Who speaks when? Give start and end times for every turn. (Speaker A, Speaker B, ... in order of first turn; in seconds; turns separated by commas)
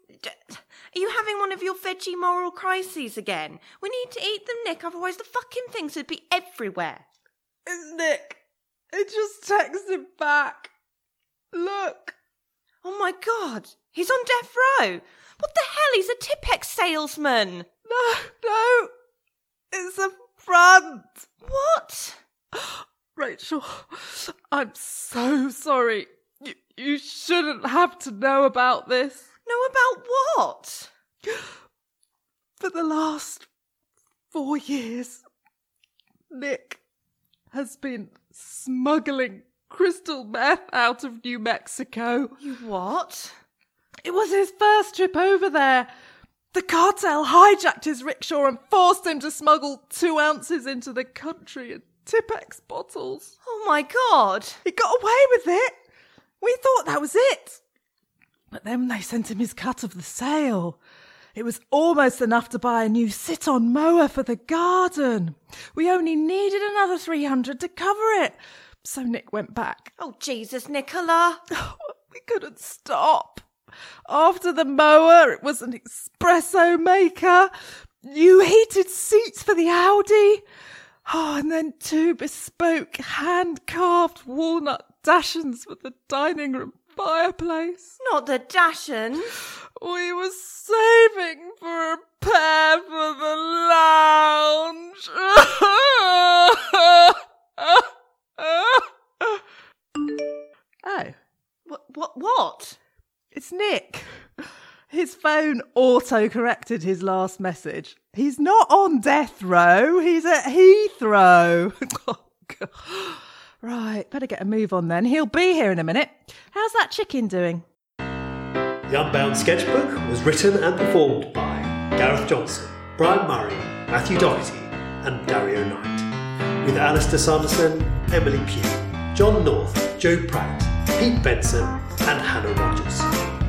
Speaker A: 0.1-7.0, Speaker B: 7.7-8.4, Speaker B: 8.9-10.7, Speaker B: 11.5-12.2, Speaker A: 12.8-17.7, Speaker B: 17.9-18.9, Speaker B: 19.7-21.2, Speaker A: 21.4-22.2, Speaker B: 23.2-29.2, Speaker A: 29.5-30.9, Speaker B: 32.6-33.5, Speaker B: 34.3-35.2, Speaker B: 36.3-36.8, Speaker B: 37.5-42.4, Speaker A: 42.4-43.3, Speaker B: 44.0-45.9, Speaker B: 46.5-53.3, Speaker A: 53.4-54.6, Speaker B: 54.6-55.7, Speaker B: 56.4-57.6, Speaker B: 58.5-60.8, Speaker B: 61.4-69.9, Speaker A: 70.0-71.4, Speaker B: 71.5-73.4, Speaker B: 74.1-77.5, Speaker B: 78.1-80.4, Speaker B: 81.1-87.9, Speaker A: 88.0-89.3, Speaker B: 89.8-97.8, Speaker B: 98.4-99.4, Speaker B: 100.8-101.2, Speaker A: 101.7-102.8, Speaker B: 103.3-104.1, Speaker B: 104.9-117.6, Speaker C: 118.9-126.1, Speaker C: 126.6-133.1